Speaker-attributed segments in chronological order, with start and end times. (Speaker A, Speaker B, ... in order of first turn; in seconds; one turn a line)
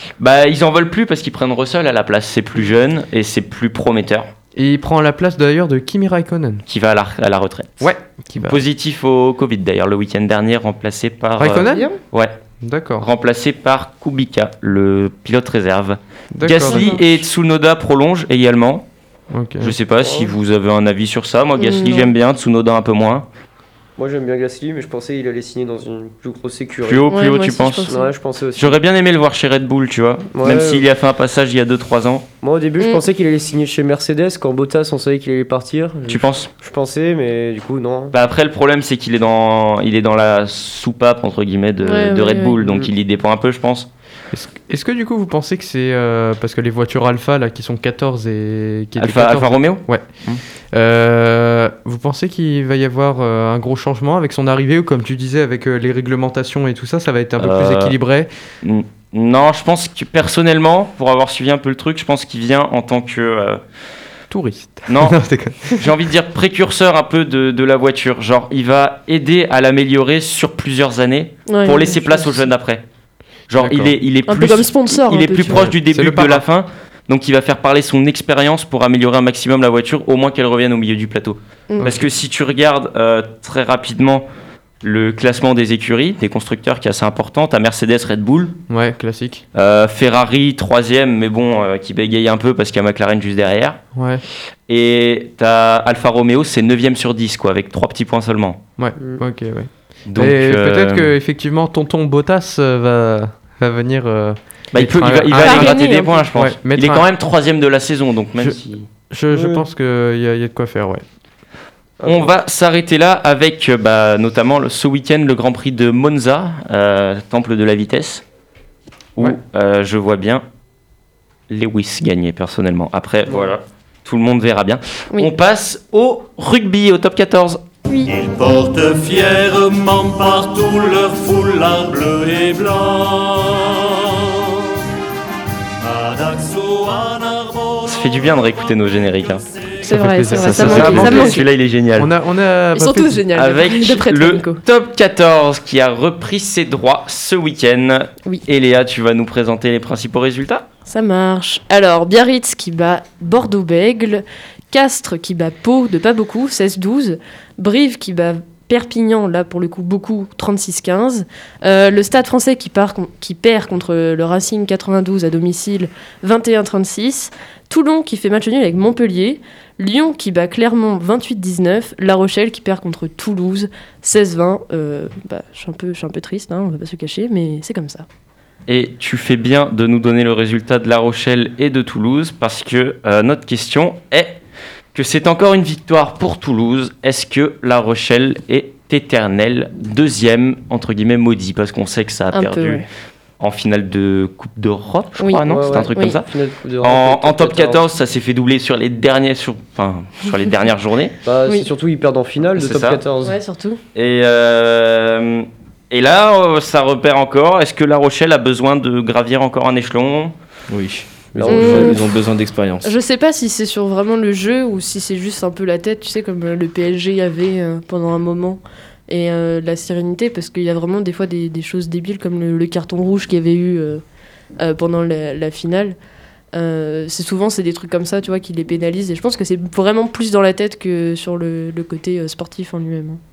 Speaker A: 0.2-4.3
Speaker B: 4.5-6.6
Speaker A: 6.7-12.3
Speaker B: 7.8-8.6
Speaker B: 11.4-11.9
Speaker C: 11.7-11.9
Speaker B: 12.6-13.1
Speaker A: 13.0-18.9
Speaker B: 16.3-17.0
Speaker C: 16.6-17.0
Speaker B: 19.3-19.8
Speaker A: 19.6-23.2
Speaker D: 20.0-20.3
Speaker C: 21.6-22.1
Speaker D: 24.0-27.1
Speaker A: 26.8-27.9
Speaker C: 27.1-28.1
Speaker D: 27.9-28.8
Speaker A: 28.6-32.2
Speaker D: 30.3-30.8
Speaker D: 32.4-38.1
Speaker A: 36.1-36.5
Speaker A: 38.1-43.9
Speaker C: 41.8-42.6
Speaker D: 42.6-42.9
Speaker B: 44.3-50.1
Speaker A: 49.0-50.4
Speaker B: 50.7-58.3
Speaker A: 57.4-58.0
Speaker A: 58.6-63.6
Speaker B: 64.3-65.9
Speaker A: 64.9-65.2
Speaker A: 65.7-72.8
Speaker C: 71.5-72.4
Speaker A: 73.5-84.3
Speaker B: 73.6-73.9
Speaker C: 74.3-75.8
Speaker B: 75.8-76.4
Speaker B: 81.8-82.1
Speaker A: 84.8-88.6
Speaker B: 88.7-89.4
Speaker A: 89.5-93.8
Speaker B: 94.0-94.2
Speaker A: 94.7-98.6
Speaker B: 98.8-105.8
Speaker A: 100.1-101.1
Speaker A: 104.7-108.9
Speaker C: 105.4-106.2
Speaker B: 106.3-107.0
Speaker B: 109.1-111.0
Speaker D: 109.3-109.7
Speaker D: 112.0-112.3
Speaker A: 112.0-118.2
Speaker A: 119.2-120.4
Speaker A: 121.5-127.6
Speaker C: 127.9-128.5
Speaker E: 128.1-134.3
Speaker A: 129.0-129.5
Speaker A: 130.4-131.5
Speaker E: 135.8-137.8
Speaker A: 137.7-139.5
Speaker C: 139.8-141.4
Speaker B: 139.9-143.3
Speaker A: 140.3-142.1
Speaker C: 142.7-144.6
Speaker A: 143.3-150.7
Speaker C: 150.9-178.1
Speaker A: 178.7-184.4
Speaker A: 184.9-192.8
Speaker C: 192.3-192.8
Speaker A: 193.4-201.2
Speaker C: 195.2-196.2
Speaker D: 195.5-197.8
Speaker D: 201.2-203.4
Speaker A: 202.5-203.0
Speaker C: 203.2-203.8
Speaker A: 203.9-210.3
Speaker F: 210.7-212.9
Speaker D: 211.3-212.0
Speaker C: 211.5-212.0
Speaker C: 212.8-224.0
Speaker C: 224.6-226.0
Speaker C: 226.5-233.2